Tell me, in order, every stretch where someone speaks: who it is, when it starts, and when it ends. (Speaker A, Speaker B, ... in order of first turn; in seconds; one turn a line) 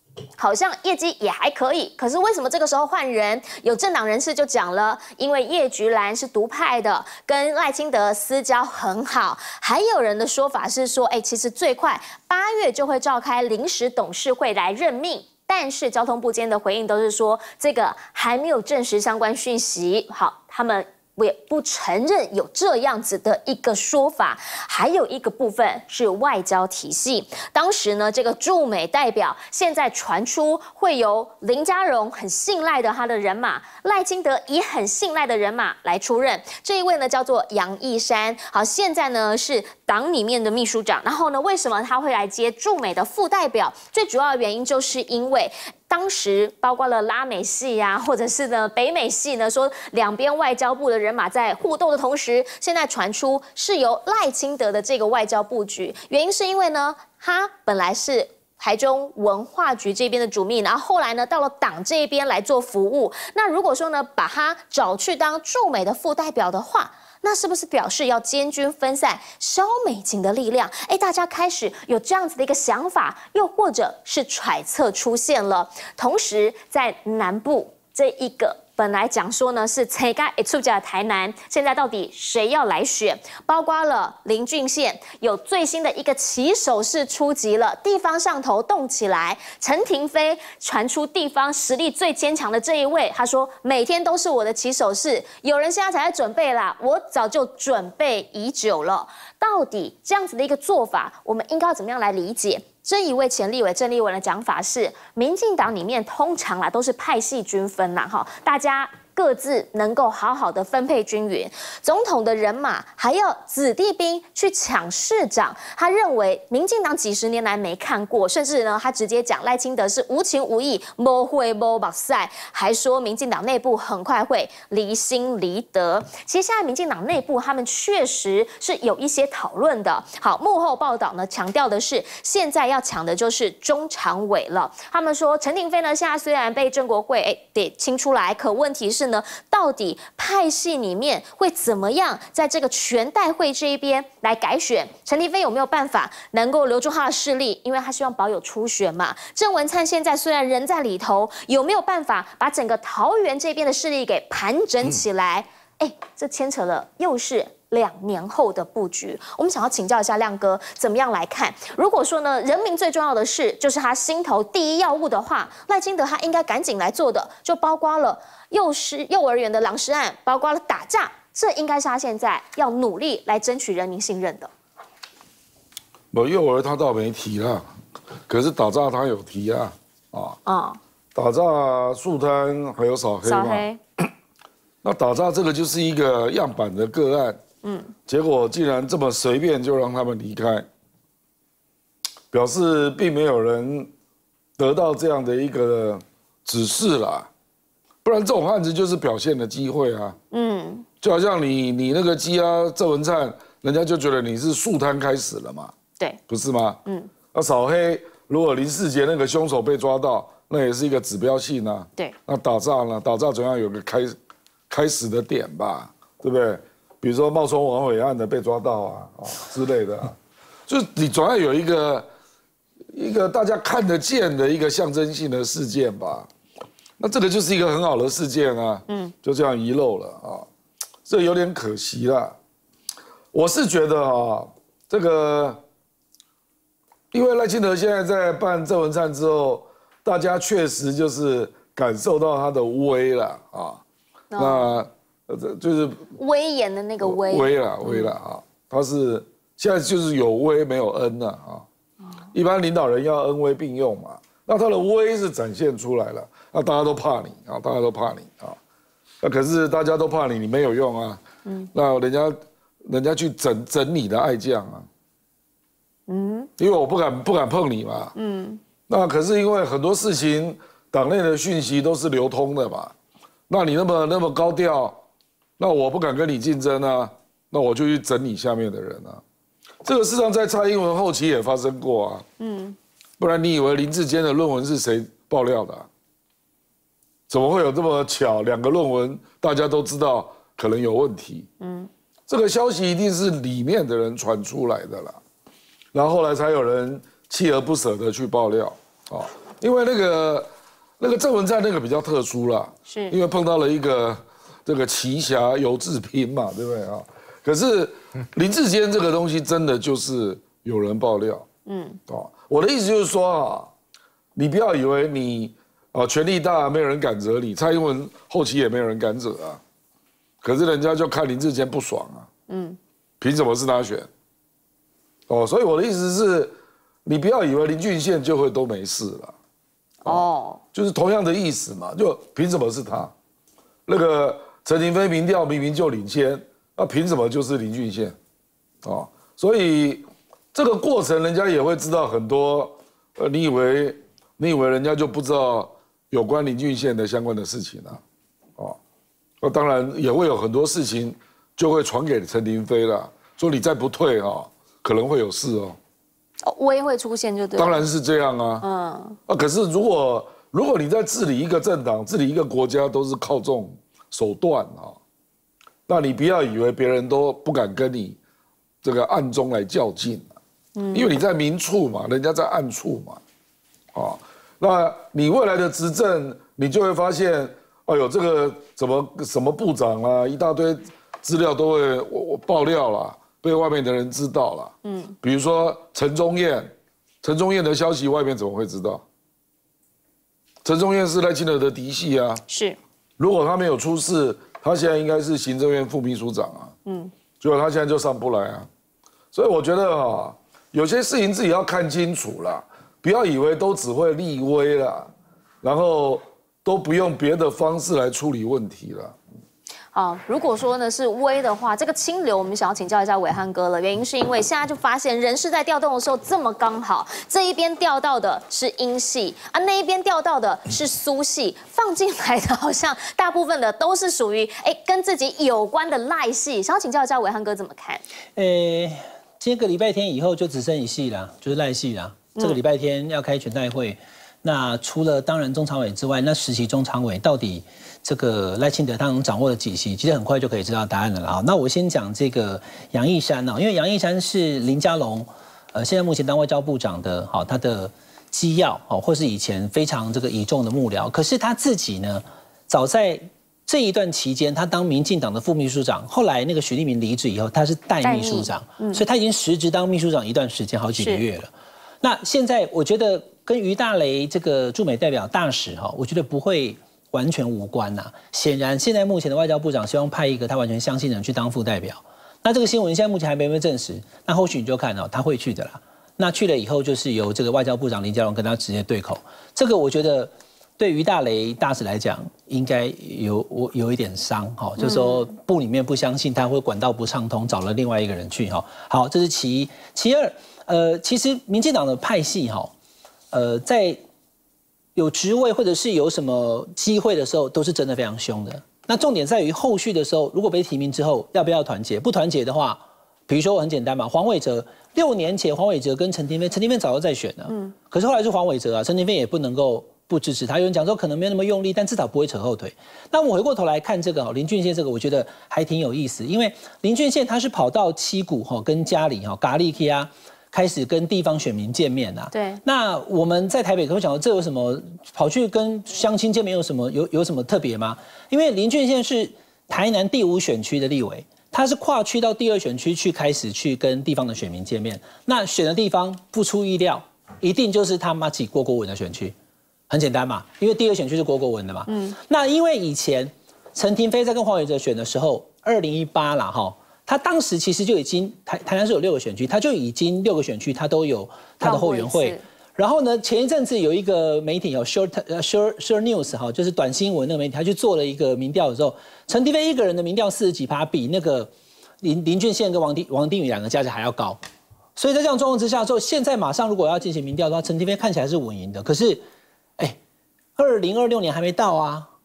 Speaker A: 0.4-174.5
Speaker B: 176.1-177.7
Speaker B: 178.3-180.4
Speaker A: 180.4-180.8
Speaker B: 181.1-183.7
Speaker A: 183.2-183.8
Speaker B: 184.8-187.4
Speaker A: 187.6-187.9
Speaker B: 188.1-190.7
Speaker B: 192.3-193.9
Speaker B: 194.6-197.3
Speaker B: 198.0-200.2
Speaker A: 200.3-200.8
Speaker B: 201.0-205.7
Speaker B: 206.3-206.8
Speaker A: 206.8-207.1
Speaker B: 207.3-214.2
Speaker B: 214.7-220.2
Speaker B: 220.7-222.1
Speaker B: 222.9-226.3
Speaker B: 227.0-230.4
Speaker B: 231.1-232.3
Speaker B: 233.3-235.6
Speaker B: 237.1-243.8
Speaker A: 244.3-244.8
Speaker B: 244.3-246.1
Speaker A: 246.2-248.1
Speaker B: 247.0-251.6
Speaker B: 252.3-258.6
Speaker B: 259.2-261.2
Speaker B: 261.7-264.9
Speaker A: 266.1-266.5
Speaker B: 266.6-268.1
Speaker A: 268.1-268.6
Speaker B: 268.9-272.9
Speaker B: 273.5-275.0
Speaker B: 275.6-279.2
Speaker B: 279.8-282.2
Speaker A: 282.4-282.8
Speaker B: 283.2-285.9
Speaker B: 287.3-291.5
Speaker A: 291.6-291.9
Speaker B: 292.3-295.2
Speaker B: 295.9-311.4
Speaker A: 302.9-303.1
Speaker A: 311.6-312.0
Speaker B: 312.1-313.7
Speaker B: 314.4-319.6
Speaker B: 320.4-322.3
Speaker A: 322.5-322.8
Speaker B: 323.2-324.1
Speaker B: 325.3-329.3
Speaker A: 330.0-330.6
Speaker B: 330.0-333.1
Speaker B: 333.9-338.1
Speaker B: 338.8-348.0
Speaker B: 349.4-355.8
Speaker A: 356.4-357.8
Speaker B: 357.6-358.7
Speaker A: 358.6-359.2
Speaker B: 359.3-365.0
Speaker B: 365.9-368.2
Speaker B: 368.8-370.3
Speaker A: 370.8-371.1
Speaker B: 370.9-373.2
Speaker B: 373.9-389.0
Speaker A: 384.8-385.1
Speaker B: 390.6-392.4
Speaker A: 392.5-392.8
Speaker B: 393.2-396.7
Speaker A: 396.9-397.1
Speaker B: 397.4-398.7
Speaker B: 399.3-405.1
Speaker B: 405.6-409.1
Speaker A: 409.9-428.0
Speaker C: 428.4-492.7
Speaker A: 458.0-459.0
Speaker A: 461.0-461.2
Speaker A: 484.8-485.1
Speaker C: 493.3-494.0
Speaker C: 494.9-539.3
Speaker A: 522.3-522.6
Speaker C: 539.9-564.4
Speaker A: 541.9-542.1
Speaker A: 551.6-552.4
Speaker C: 565.0-569.2
Speaker C: 570.5-572.1